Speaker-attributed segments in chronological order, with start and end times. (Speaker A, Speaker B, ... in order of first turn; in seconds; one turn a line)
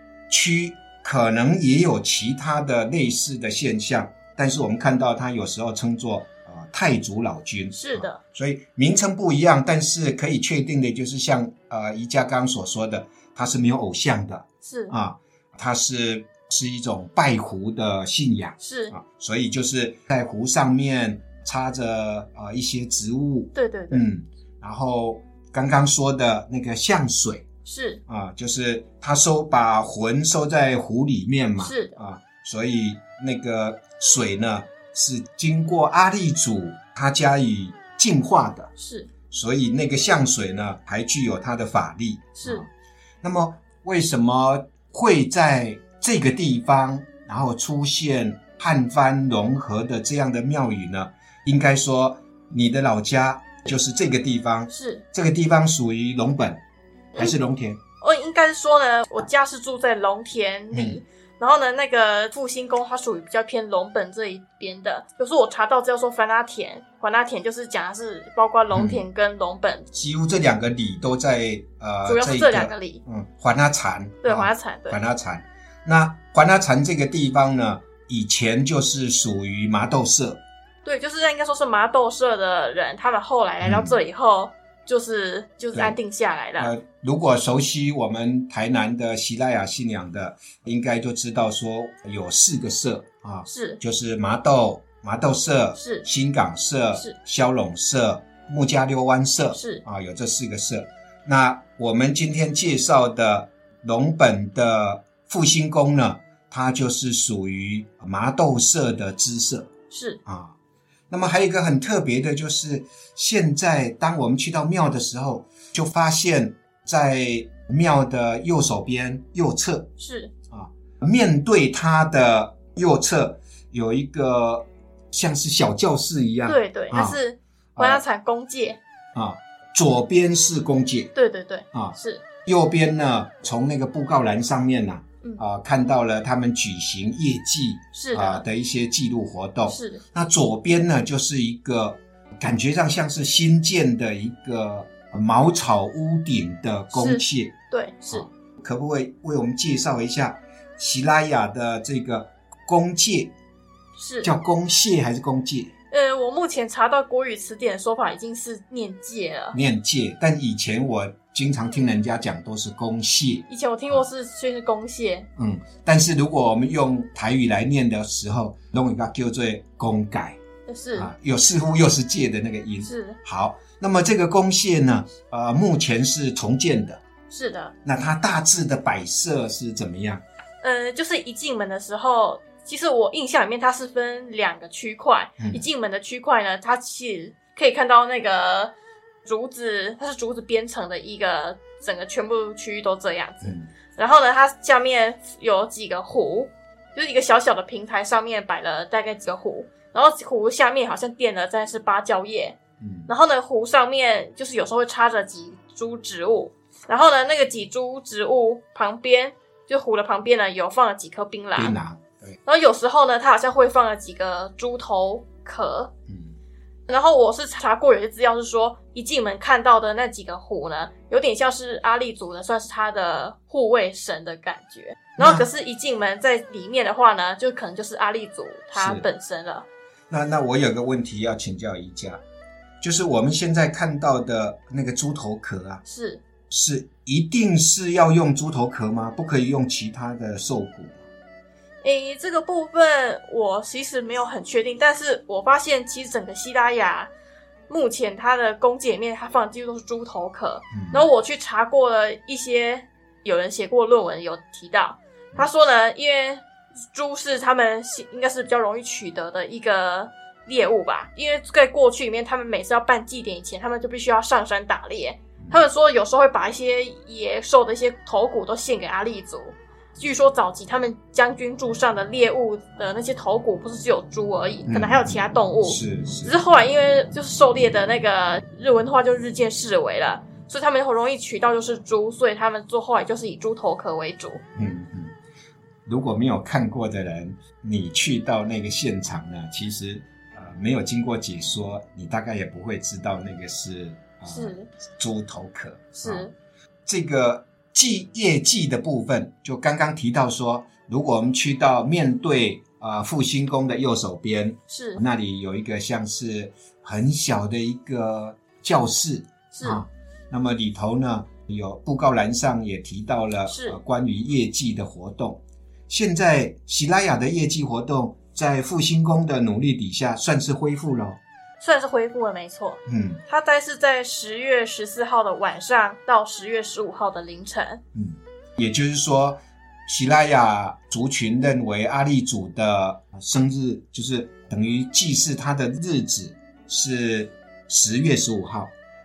Speaker A: 0.3-27.4
Speaker B: 7.7-8.2
Speaker B: 14.6-14.9
Speaker B: 18.6-18.9
Speaker B: 23.5-24.0
Speaker B: 27.6-28.0
Speaker A: 28.1-38.7
Speaker B: 31.6-32.0
Speaker B: 38.8-39.1
Speaker A: 39.3-42.7
Speaker B: 42.4-42.6
Speaker A: 43.2-56.6
Speaker B: 54.7-55.0
Speaker A: 57.2-57.8
Speaker B: 58.0-69.9
Speaker A: 60.7-61.0
Speaker A: 68.7-69.0
Speaker A: 69.9-80.4
Speaker B: 72.0-73.0
Speaker B: 74.2-75.0
Speaker B: 80.8-86.7
Speaker A: 83.6-84.0
Speaker A: 86.6-109.7
Speaker B: 93.5-93.8
Speaker B: 95.8-96.0
Speaker B: 99.5-99.8
Speaker B: 109.9-110.2
Speaker A: 110.2-110.5
Speaker A: 111.1-119.9
Speaker B: 120.0-120.3
Speaker A: 120.5-127.2
Speaker B: 126.4-128.8
Speaker A: 127.8-128.0
Speaker A: 129.1-131.1
Speaker B: 131.1-132.2
Speaker A: 131.7-147.5
Speaker B: 137.9-138.4
Speaker B: 139.7-140.0
Speaker B: 146.9-148.2
Speaker A: 148.1-153.3
Speaker B: 154.0-154.3
Speaker A: 154.2-155.7
Speaker B: 155.9-159.6
Speaker A: 159.5-164.0
Speaker B: 163.5-165.3
Speaker A: 165.4-170.4
Speaker B: 170.7-171.1
Speaker A: 170.9-177.0
Speaker B: 172.8-173.2
Speaker B: 177.3-177.7
Speaker A: 177.8-180.2
Speaker B: 180.6-188.7
Speaker B: 189.2-202.6
Speaker A: 193.4-193.7
Speaker A: 202.8-203.1
Speaker B: 203.1-211.7
Speaker A: 211.6-212.4
Speaker B: 212.5-215.9
Speaker A: 216.1-216.4
Speaker B: 216.9-229.7
Speaker A: 225.2-225.4
Speaker A: 228.7-229.0
Speaker A: 230.1-232.2
Speaker A: 232.8-235.8
Speaker B: 235.8-236.2
Speaker A: 236.5-241.0
Speaker B: 241.8-247.1
Speaker B: 247.7-284.4
Speaker A: 250.7-251.1
Speaker A: 274.7-276.4
Speaker A: 284.5-285.1
Speaker A: 285.9-296.3
Speaker B: 294.2-294.7
Speaker B: 295.9-296.3
Speaker A: 296.9-321.2
Speaker B: 304.7-305.0
Speaker B: 309.5-309.8
Speaker B: 313.5-313.8
Speaker B: 321.6-327.8
Speaker A: 322.9-323.2
Speaker A: 327.9-338.7